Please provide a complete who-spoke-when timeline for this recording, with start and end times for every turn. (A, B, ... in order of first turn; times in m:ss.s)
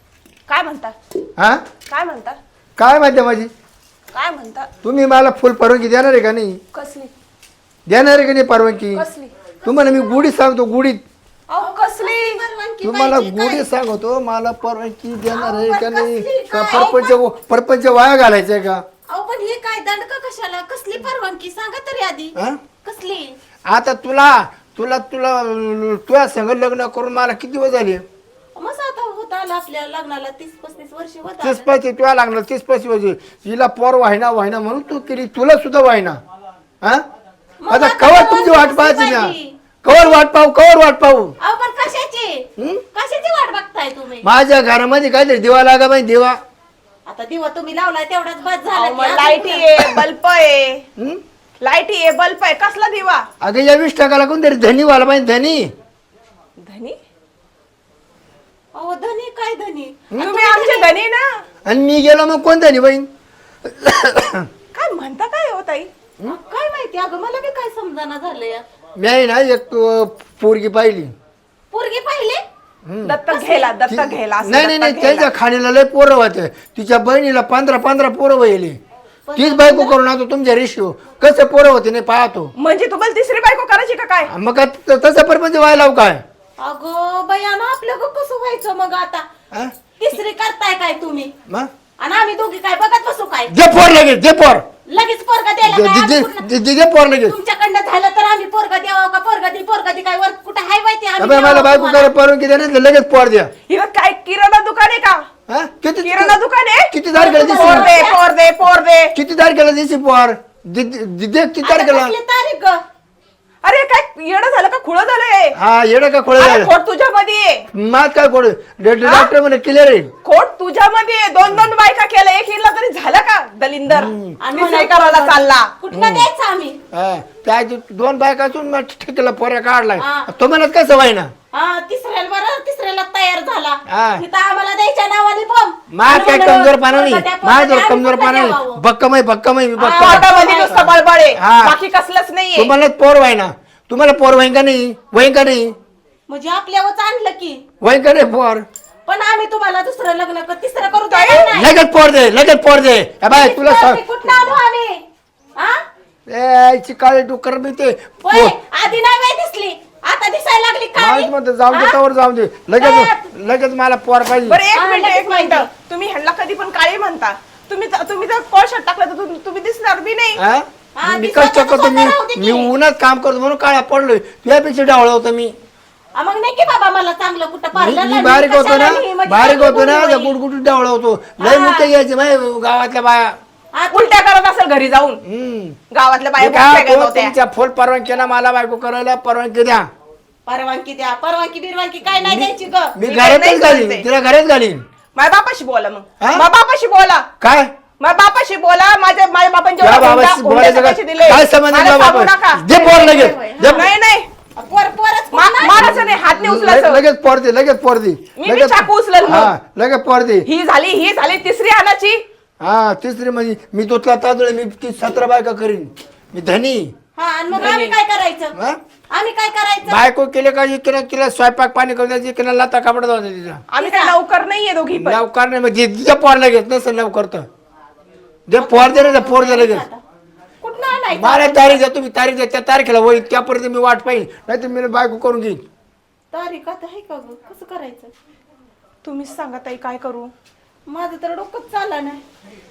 0:00.5-0:00.9 A
0:01.4-0:01.6 B
0:01.9-0:02.4 A
0:02.8-0:03.5 B
0:04.1-0:04.7 A
0:04.8-0:06.6 B
0:06.7-0:07.1 A
0:07.9-0:09.0 B
0:08.9-0:09.3 A
0:09.6-0:11.0 B
0:09.7-0:10.0 C
0:11.5-0:12.4 A
0:11.6-0:13.7 C
0:12.8-0:18.8 B
0:15.3-0:17.2 C
0:19.1-0:23.3 C
0:22.4-0:22.6 B
0:23.7-0:28.0 B
0:28.5-0:31.7 C
0:31.4-0:36.2 B
0:37.6-0:40.2 C
0:37.7-0:41.3 B
0:41.4-0:44.3 C
0:42.6-0:42.8 B
0:44.2-0:46.4 B
0:47.0-0:50.0 C
0:48.7-0:50.8 A
0:51.6-0:53.2 A
0:53.4-0:55.7 B
0:56.6-0:57.0 A
0:58.7-1:00.9 C
1:00.1-1:00.4 B
1:00.2-1:01.4 A
1:01.6-1:03.1 B
1:03.6-1:04.5 B
1:04.7-1:05.9 A
1:06.3-1:08.6 C
1:09.0-1:11.1 B
1:11.7-1:12.4 C
1:12.8-1:13.2 B
1:13.1-1:15.3 A
1:13.3-1:13.7 C
1:13.9-1:18.8 B
1:19.3-1:20.0 C
1:19.4-1:22.5 B
1:22.5-1:24.3 A
1:24.3-1:26.2 B
1:26.6-1:29.2 C
1:30.0-1:31.3 C
1:32.0-1:33.5 C
1:33.5-1:34.6 B
1:34.9-1:36.5 C
1:35.6-1:37.4 B
1:37.2-1:42.1 C
1:41.2-1:43.5 B
1:43.7-1:45.2 A
1:45.5-1:46.4 B
1:46.0-1:49.1 A
1:46.9-1:48.0 B
1:47.1-1:48.2 C
1:49.1-1:52.2 B
1:51.6-1:52.8 C
1:53.6-1:55.5 A
1:55.5-1:56.7 B
1:56.4-1:57.6 A
1:57.7-2:00.1 B
1:59.0-1:59.3 A
2:00.2-2:05.7 A
2:03.9-2:04.4 B
2:04.4-2:06.8 C
2:05.9-2:06.3 B
2:06.9-2:11.3 B
2:10.0-2:10.3 C
2:11.5-2:18.8 C
2:13.9-2:14.2 B
2:15.9-2:21.8 B
2:19.8-2:20.8 C
2:19.8-2:22.7 A
2:22.6-2:25.7 B
2:26.3-2:27.6 C
2:27.8-2:28.6 B
2:29.0-2:31.7 C
2:31.1-2:31.5 A
2:31.5-2:34.5 B
2:33.3-2:35.0 C
2:36.3-2:38.6 B
2:38.2-2:42.0 C
2:41.0-2:44.6 B
2:42.8-2:43.2 C
2:44.4-2:50.4 A
2:44.7-2:45.7 C
2:50.4-2:55.5 B
2:50.9-2:52.7 C
2:56.1-3:00.4 C
2:57.7-3:03.4 B
3:01.4-3:01.9 C
3:03.7-3:04.2 C
3:03.9-3:05.2 A
3:05.2-3:05.8 B
3:05.9-3:07.3 A
3:06.4-3:09.8 B
3:10.4-3:13.0 C
3:12.2-3:14.8 B
3:13.0-3:14.0 A
3:15.1-3:17.2 A
3:16.2-3:16.4 B
3:17.4-3:17.7 B
3:18.0-3:22.7 A
3:19.8-3:23.9 B
3:22.7-3:23.9 C
3:23.7-3:24.3 A
3:24.6-3:25.9 C
3:25.3-3:27.0 A
3:25.7-3:30.5 B
3:28.4-3:29.5 A
3:30.4-3:32.2 A
3:32.6-3:36.9 B
3:37.2-3:38.5 C
3:37.5-3:38.0 A
3:39.1-3:40.0 C
3:39.8-3:43.6 B
3:43.7-3:45.2 A
3:43.8-3:44.2 C
3:45.0-3:47.5 B
3:48.5-3:49.8 B
3:48.6-3:50.0 C
3:50.6-3:51.8 C
3:51.1-3:55.6 B
3:56.3-3:58.1 C
3:59.0-4:00.3 A
4:00.9-4:02.2 C